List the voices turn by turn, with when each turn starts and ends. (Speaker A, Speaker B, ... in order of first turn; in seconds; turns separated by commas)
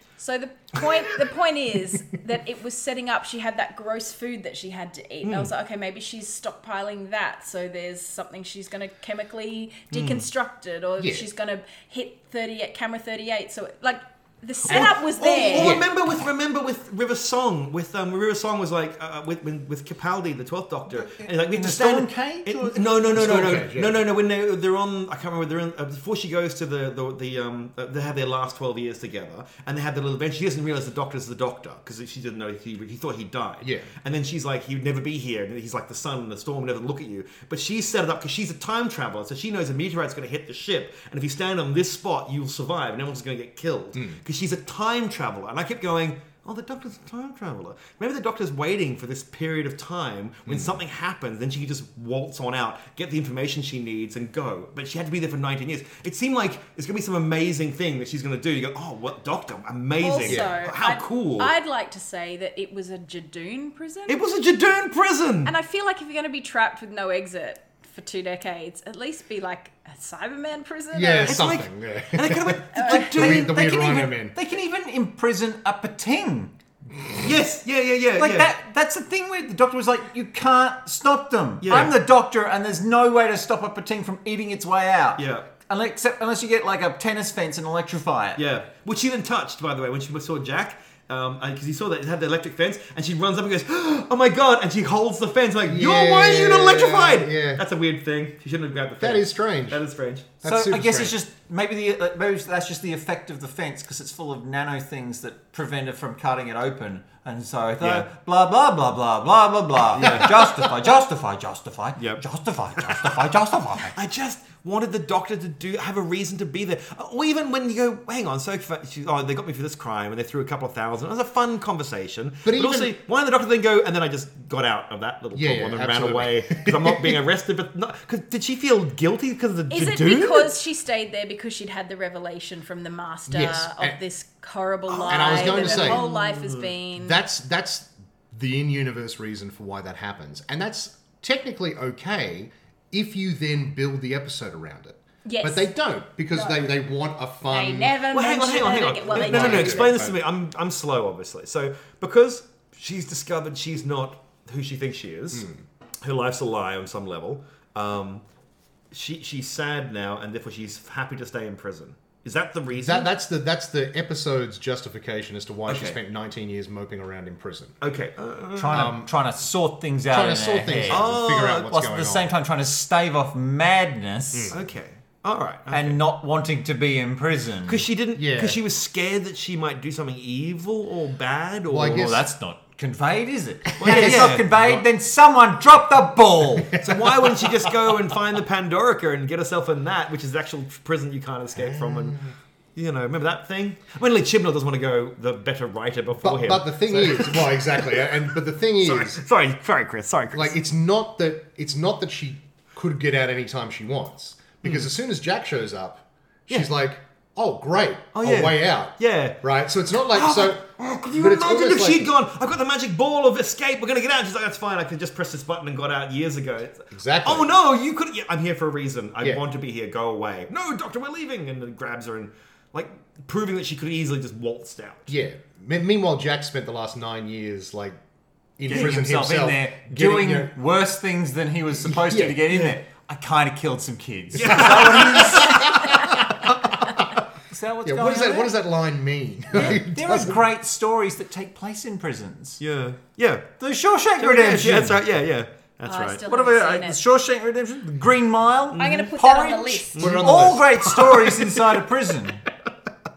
Speaker A: 0.2-15.8, Speaker B: 5.2-5.5, Speaker B: 9.9-10.2, Speaker C: 11.0-11.3, Speaker B: 14.7-61.5, Speaker C: 15.5-15.9, Speaker D: 21.5-22.9, Speaker C: 23.1-24.0, Speaker C: 33.6-33.9, Speaker C: 50.5-50.8, Speaker A: 60.0-64.2, Speaker C: 60.2-60.5, Speaker B: 64.1-65.5, Speaker A: 65.5-71.4, Speaker C: 70.9-74.3, Speaker B: 71.2-74.1, Speaker D: 73.0-76.5, Speaker C: 77.0-77.2, Speaker B: 77.2-78.5, Speaker D: 78.2-88.4, Speaker B: 81.6-82.0, Speaker B: 85.2-85.5, Speaker B: 88.3-100.3, Speaker C: 95.7-97.6, Speaker C: 99.0-99.8, Speaker C: 100.4-101.2, Speaker D: 100.4-113.9, Speaker B: 107.8-108.1, Speaker B: 109.9-110.7, Speaker B: 112.0-112.2, Speaker B: 112.8-113.1, Speaker B: 113.9-130.5, Speaker C: 122.4-122.9, Speaker C: 125.3-127.2, Speaker A: 129.7-137.2, Speaker C: 133.3-134.0, Speaker B: 134.9-136.7, Speaker C: 135.1-136.0, Speaker C: 137.0-148.0, Speaker A: 145.2-145.7, Speaker A: 146.3-146.7, Speaker A: 147.5-150.0, Speaker B: 148.1-155.5, Speaker C: 149.1-150.2, Speaker C: 155.3-155.6, Speaker B: 156.0-158.2, Speaker B: 158.9-163.1, Speaker C: 162.7-167.8, Speaker B: 165.7-166.0, Speaker B: 167.8-168.9, Speaker D: 168.6-174.5, Speaker C: 168.7-169.1, Speaker C: 170.1-172.3, Speaker B: 170.9-171.7, Speaker C: 174.3-174.6, Speaker B: 174.5-176.0, Speaker D: 175.7-177.8, Speaker B: 177.7-182.1, Speaker C: 178.1-178.6, Speaker C: 181.7-182.2, Speaker D: 181.9-186.8, Speaker B: 183.8-184.8, Speaker C: 183.8-184.3, Speaker C: 186.7-187.2, Speaker B: 186.8-192.2, Speaker C: 191.5-192.3, Speaker B: 192.8-198.1, Speaker C: 196.2-199.2, Speaker B: 198.8-200.6, Speaker C: 200.3-212.1, Speaker B: 208.1-209.4, Speaker B: 210.1-225.1, Speaker C: 216.9-217.6, Speaker C: 225.1-227.9, Speaker C: 228.6-230.5, Speaker D: 228.7-236.1, Speaker C: 231.8-232.5, Speaker B: 234.3-235.9, Speaker C: 234.4-237.0, Speaker D: 237.5-238.5, Speaker C: 237.8-240.4, Speaker B: 239.5-239.8, Speaker D: 239.5-242.6, Speaker B: 242.6-243.5, Speaker D: 243.6-245.0, Speaker B: 244.2-246.2, Speaker A: 245.8-247.0, Speaker D: 246.2-252.4, Speaker A: 248.7-249.9, Speaker B: 249.9-251.8, Speaker C: 250.0-250.7